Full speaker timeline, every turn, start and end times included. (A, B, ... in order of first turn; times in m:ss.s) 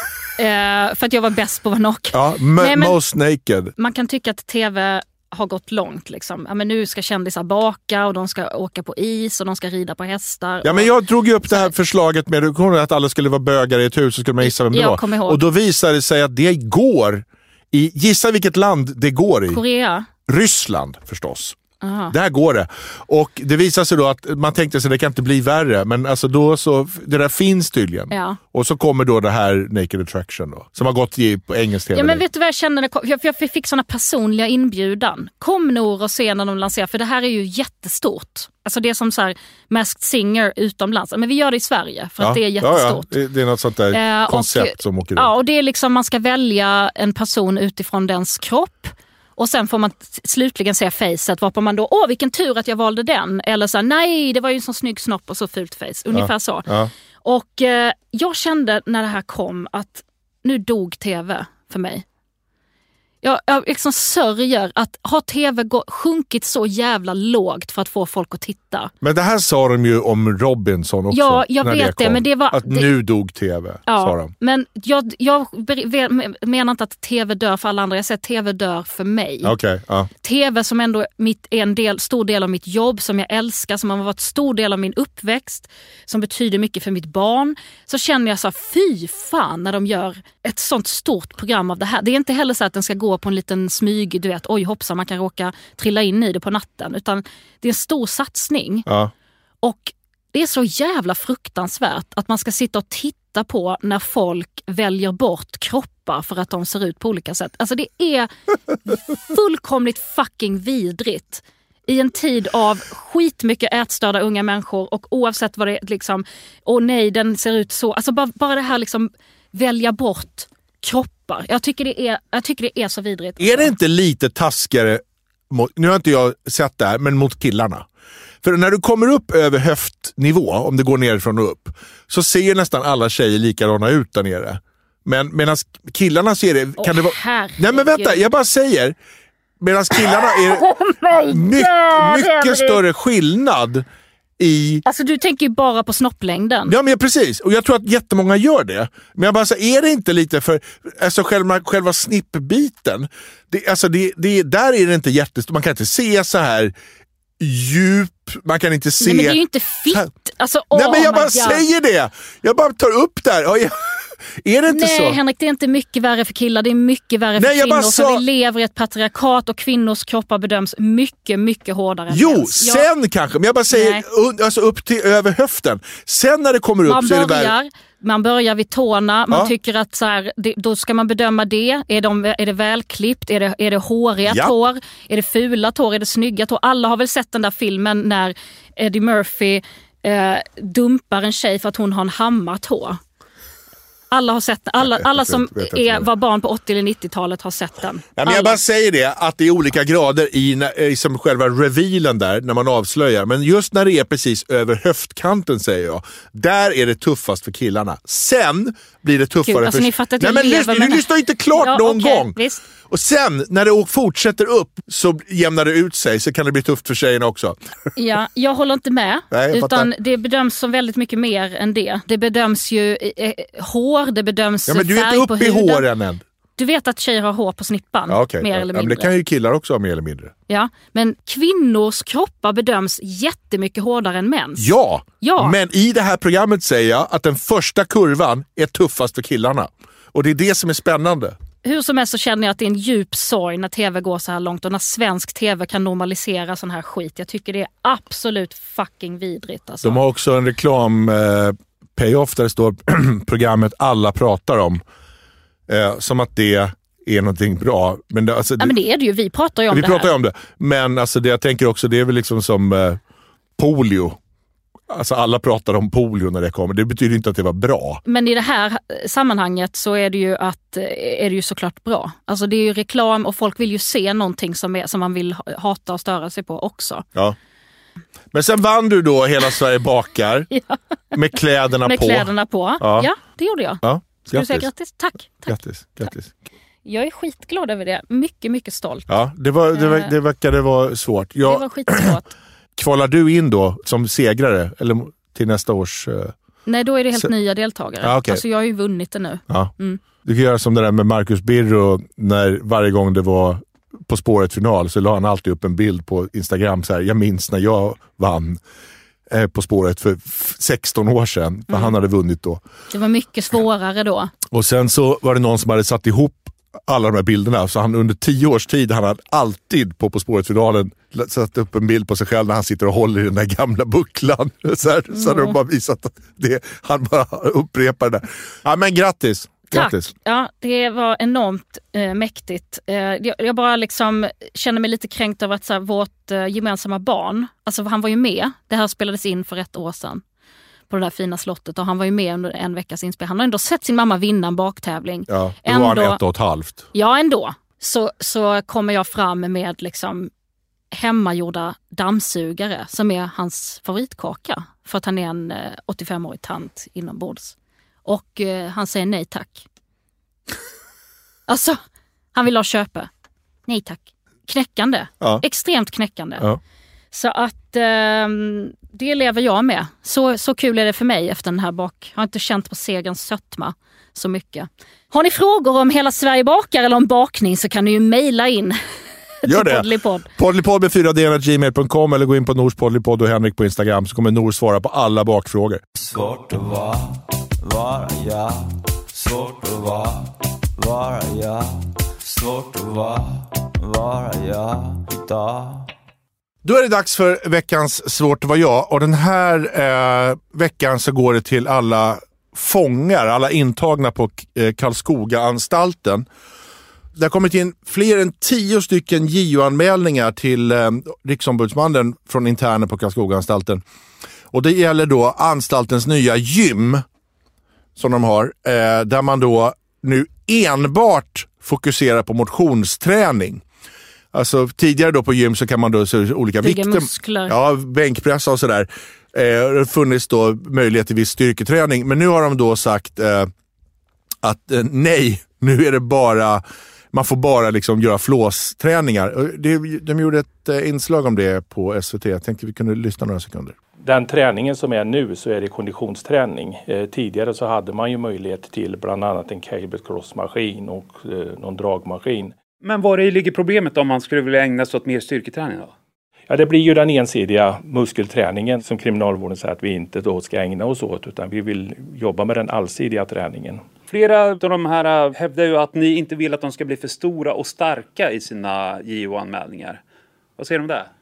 0:00.4-0:03.0 A
0:02.1-0:03.7 B
0:03.8-0:10.9 A
0:10.6-0:19.6 B
0:14.4-0:15.4 A
0:19.5-0:20.1 A
0:20.2-0:21.6 B
0:21.8-0:22.1 A
0:22.1-0:32.2 B
0:28.1-0:28.4 A
0:31.9-0:43.1 A
0:42.2-0:45.3 B
0:43.9-0:56.7 A
0:56.1-0:56.9 B
0:57.2-1:02.0 A
1:03.2-1:08.9 A
1:09.0-1:14.3 B
1:11.1-1:12.9 A
1:13.9-1:19.5 A
1:19.4-1:20.1 B
1:20.2-1:38.9 A
1:39.6-2:03.7 A
2:03.4-2:07.8 B
2:08.4-2:19.0 B
2:16.8-2:18.2 A
2:19.6-2:23.8 B
2:20.1-2:22.8 A
2:24.4-2:24.8 B
2:24.8-2:26.7 A
2:26.7-2:36.7 B
2:37.4-2:39.4 B
2:39.0-2:41.6 A
2:40.7-2:45.2 B
2:44.7-2:52.9 A
2:47.4-2:48.2 B
2:52.1-2:57.5 B
2:53.7-2:54.0 A
2:56.8-3:13.0 A
3:04.3-3:04.5 B
3:14.1-3:18.6 A
3:14.8-3:16.1 B
3:18.2-3:37.6 B
3:29.4-3:31.0 A
3:31.6-3:32.6 A
3:38.0-3:45.8 A
3:39.3-3:39.9 B
3:44.7-3:46.2 B
3:46.6-3:49.1 A
3:48.1-3:50.3 B
3:50.5-3:54.6 A
3:54.6-4:01.4 B
3:55.2-3:55.5 A
4:01.6-4:10.0 A
4:09.8-4:14.8 B
4:15.7-4:18.7 B
4:18.6-4:20.1 A
4:19.7-4:23.0 B
4:23.6-4:24.2 B
4:24.9-4:28.0 B
4:28.0-4:37.0 A
4:38.3-4:40.5 B
4:40.5-4:40.8 A
4:41.1-4:43.1 B
4:41.8-4:45.6 A
4:43.8-4:44.7 B
4:45.5-4:46.3 B
4:46.8-4:49.1 A
4:49.1-4:52.2 B
4:49.7-4:50.1 A
4:51.4-4:52.3 A
4:52.8-4:56.3 B
4:56.6-5:00.0 A
4:58.0-4:58.4 B
5:00.2-5:08.6 B
5:09.3-5:12.6 B
5:11.7-5:11.9 A
5:12.9-5:14.3 A
5:14.5-5:30.1 B
5:25.1-5:25.6 A
5:29.7-5:40.2 A
5:40.9-5:46.2 A
5:45.3-5:46.9 B
5:46.9-5:50.3 A
5:50.9-5:59.6 A
6:01.5-6:01.8 A
6:02.3-6:03.1 A
6:03.7-6:06.4 A
6:07.1-6:18.8 A
6:19.4-6:20.3 A
6:19.4-6:25.8 B
6:26.0-6:35.9 C
6:36.6-6:46.2 B
6:47.2-6:53.8 B
6:54.5-6:57.0 B
6:58.0-7:03.6 B
7:04.3-7:13.5 B
7:06.6-7:07.5 A
7:14.4-7:23.8 B
7:24.0-7:32.5 D
7:32.8-7:35.9 E
7:36.5-7:43.9 D
7:44.1-7:50.0 E
7:50.6-7:51.1 E